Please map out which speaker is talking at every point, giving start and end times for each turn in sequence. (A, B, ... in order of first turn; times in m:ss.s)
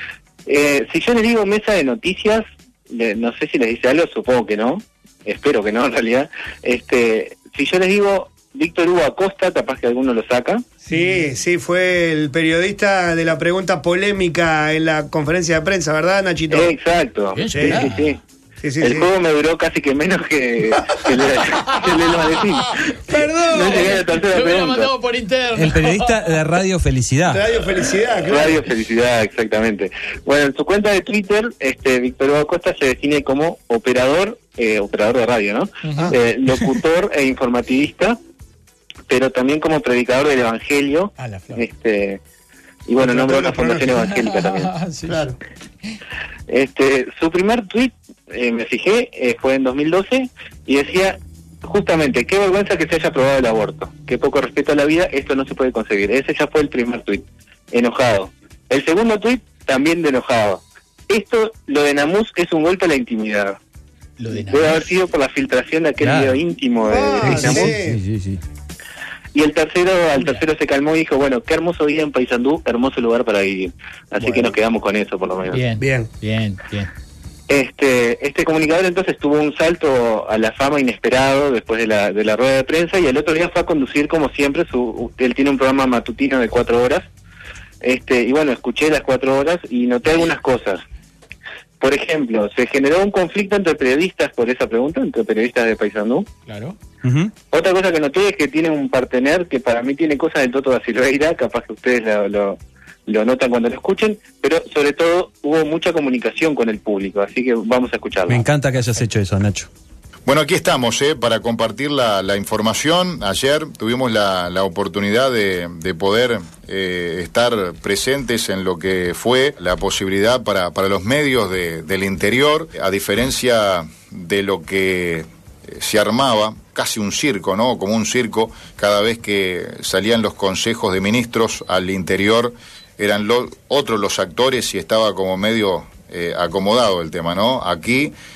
0:00.4-0:10.6 A
0:10.8-0:16.7 B
0:16.5-0:18.2 A
0:17.3-0:18.2 C
0:17.5-0:17.9 B
0:18.6-0:19.1 B
0:18.8-0:24.9 A
0:23.1-0:26.4 C
0:23.1-0:23.8 B
0:25.6-0:27.4 D
0:27.3-0:28.6 B
0:28.2-0:38.2 A
0:35.8-0:36.1 C
0:39.1-0:42.2 A
0:41.2-0:41.6 C
0:42.9-0:44.7 A
0:43.0-0:44.0 B
0:44.0-0:45.2 C
0:45.1-0:45.4 B
0:46.5-1:03.6 A
1:04.2-1:04.9 C
1:04.5-1:07.7 A
1:06.0-1:06.4 D
1:06.8-1:08.0 B
1:07.2-1:07.7 D
1:09.3-1:15.6 A
1:14.2-1:14.5 B
1:15.5-1:16.9 C
1:15.8-1:16.1 B
1:17.5-1:27.0 A
1:27.8-1:30.8 A
1:31.8-1:36.3 A
1:36.5-1:36.8 C
1:37.0-1:37.3 D
1:37.5-1:48.4 A
1:48.3-1:49.7 D
1:50.2-2:18.1 E